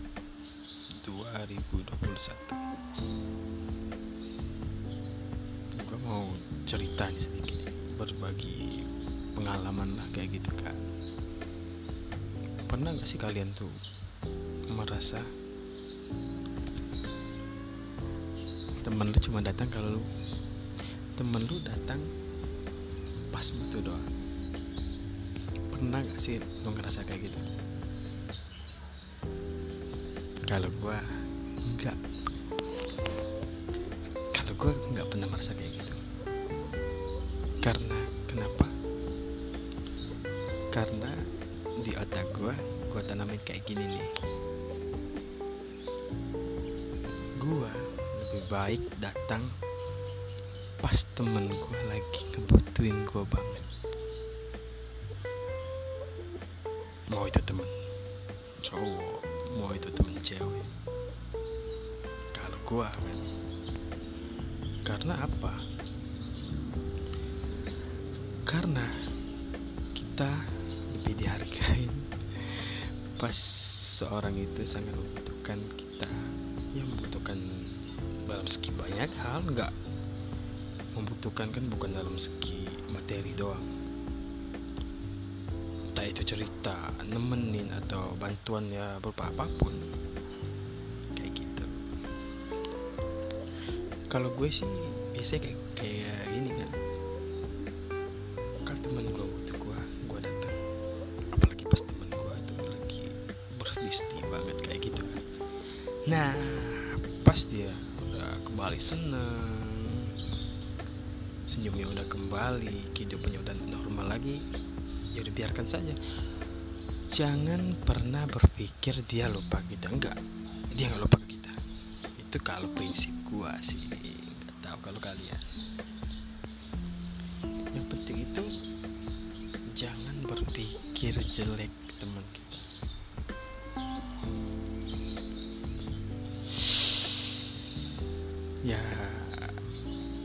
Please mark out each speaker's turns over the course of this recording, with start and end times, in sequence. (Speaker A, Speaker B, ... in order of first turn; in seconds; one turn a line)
Speaker A: 1.0-2.6
Speaker A: 5.8-8.8
Speaker A: 9.3-10.8
Speaker A: 12.7-13.7
Speaker A: 14.7-15.3
Speaker A: 18.8-20.1
Speaker A: 21.2-22.1
Speaker A: 23.3-24.1
Speaker A: 25.7-27.4
Speaker A: 30.5-31.1
Speaker A: 31.7-32.0
Speaker A: 34.3-36.0
Speaker A: 37.6-38.7
Speaker A: 40.7-41.2
Speaker A: 41.8-44.1
Speaker A: 47.4-49.5
Speaker A: 50.8-53.7
Speaker A: 57.1-57.8
Speaker A: 58.6-60.7
Speaker A: 62.3-63.3
Speaker A: 64.9-65.6
Speaker A: 68.5-68.9
Speaker A: 70.0-76.2
Speaker A: 76.7-79.7
Speaker A: 81.0-83.7
Speaker A: 85.9-89.9
Speaker A: 91.2-91.8
Speaker A: 94.1-96.8
Speaker A: 98.7-100.6
Speaker A: 101.3-105.2
Speaker A: 106.1-110.1
Speaker A: 111.5-114.4
Speaker A: 115.1-116.0
Speaker A: 117.1-120.2
Speaker A: 120.7-121.6
Speaker A: 122.2-125.4
Speaker A: 127.7-128.5
Speaker A: 129.8-132.7
Speaker A: 138.7-139.6